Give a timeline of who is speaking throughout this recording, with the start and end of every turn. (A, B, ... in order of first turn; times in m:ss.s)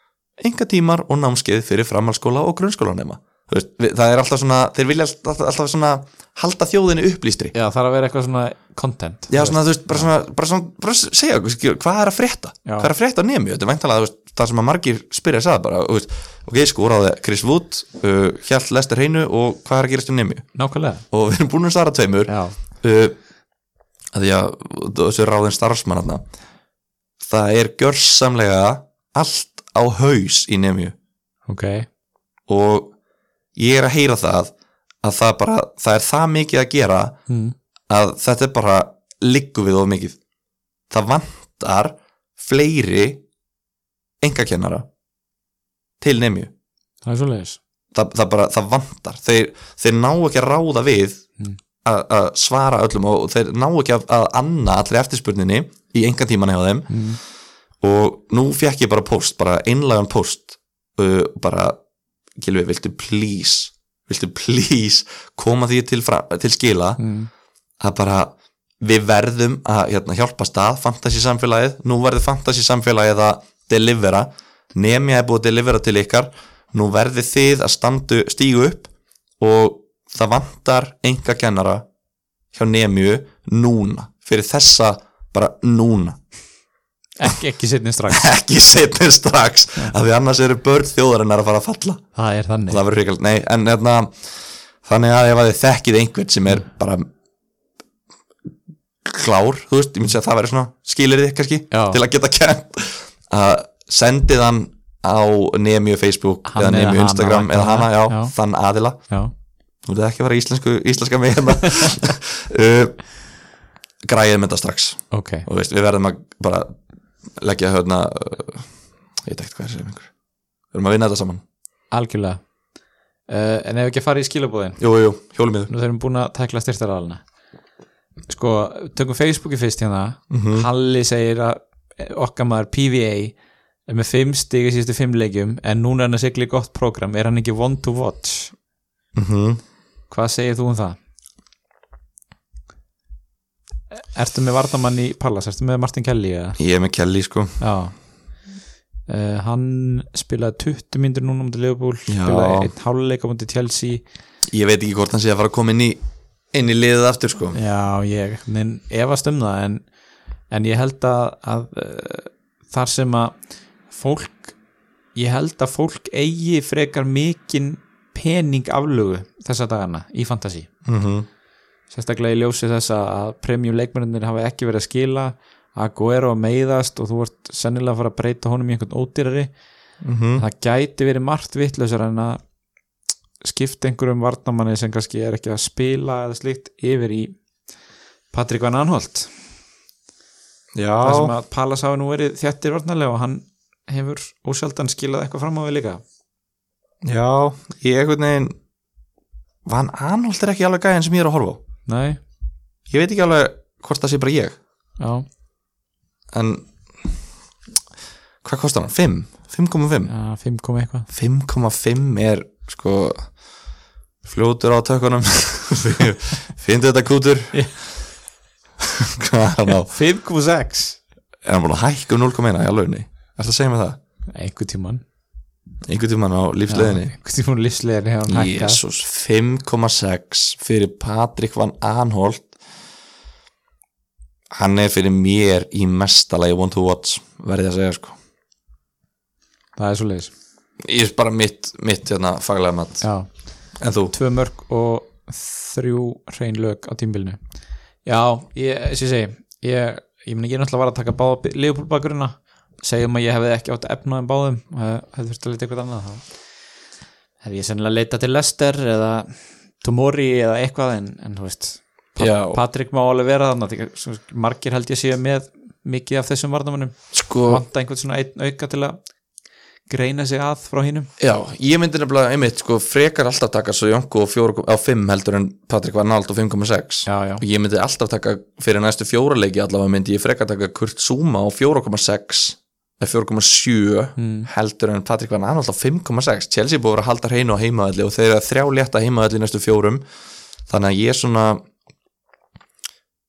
0:00.4-0:07.5 A
0:07.5-0:10.1 B
0:09.3-0:20.5 A
0:12.6-0:12.9 B
0:20.6-0:21.0 B
0:21.1-0:23.2 A
0:22.3-0:22.6 B
0:24.1-0:26.2 A
0:27.2-0:31.0 A
0:31.5-0:31.9 B
0:32.5-0:32.9 A
0:33.6-0:34.5 A
0:35.0-0:37.2 A
0:37.3-0:37.6 B
0:37.9-0:40.2 A
0:40.9-0:43.2 A
0:44.2-0:44.9 A
0:46.0-0:46.5 A
0:47.0-0:47.6 B
0:47.9-0:51.2 A
0:51.8-0:56.9 A
0:56.9-0:57.2 B
0:57.8-1:01.8 A
1:02.4-1:07.0 A
1:07.0-1:07.3 B
1:07.8-1:21.8 A
1:22.5-1:26.2 A
1:27.2-1:28.3 B
1:28.1-1:32.0 A
1:32.2-1:32.8 B
1:32.7-1:34.2 A
1:34.8-1:37.1 A
1:39.0-1:49.0 A
1:41.7-1:42.0 B
1:46.5-1:48.3 B
1:49.9-1:53.0 A
1:51.7-1:52.0 B
1:54.0-1:56.7 A
1:55.1-1:55.5 B
1:57.4-1:58.7 A
1:59.2-2:00.1 A
2:00.7-2:01.4 A
2:01.9-2:02.4 B
2:03.3-2:04.8 B
2:04.8-2:05.7 A
2:05.7-2:07.2 B
2:08.3-2:13.4 B
2:10.3-2:10.7 A
2:13.9-2:18.5 B
2:19.2-2:19.6 A
2:20.1-2:21.0 B
2:24.0-2:26.6 B
2:26.6-2:27.6 A
2:27.6-2:27.9 B
2:29.1-2:34.0 B
2:32.1-2:32.7 A
2:34.5-2:36.0 A
2:36.5-2:37.6 A
2:37.5-2:39.8 B
2:40.5-2:43.4 B
2:43.9-2:44.6 B
2:45.2-2:50.7 B
2:50.8-2:51.3 A
2:51.9-2:59.5 B
3:00.0-3:00.4 A
3:00.4-3:02.4 B
3:03.4-3:07.4 B
3:08.3-3:09.3 B
3:10.8-3:11.3 A
3:11.0-3:16.0 B
3:17.0-3:18.6 A
3:19.7-3:21.6 A
3:21.9-3:22.2 B
3:22.9-3:24.6 A
3:25.0-3:25.2 B
3:26.3-3:26.7 A
3:28.4-3:30.1 A
3:30.1-3:31.1 B
3:31.1-3:33.3 A
3:34.2-3:37.6 A
3:38.8-3:39.9 A
3:39.9-3:41.0 B
3:41.4-3:44.0 A
3:44.3-3:45.0 B
3:45.9-3:47.1 A
3:46.7-3:48.8 B
3:48.3-3:52.5 A
3:54.5-3:58.2 A
3:59.8-4:00.3 B
4:00.8-4:03.1 A
4:03.0-4:03.3 B
4:03.8-4:04.1 A
4:04.1-4:07.4 B
4:08.0-4:16.2 B
4:17.4-4:29.0 B
4:22.2-4:22.6 A
4:27.1-4:27.6 A
4:29.9-4:31.1 B
4:31.2-4:50.0 A
4:37.1-4:37.4 B
4:44.2-4:44.5 B
4:50.7-4:51.6 A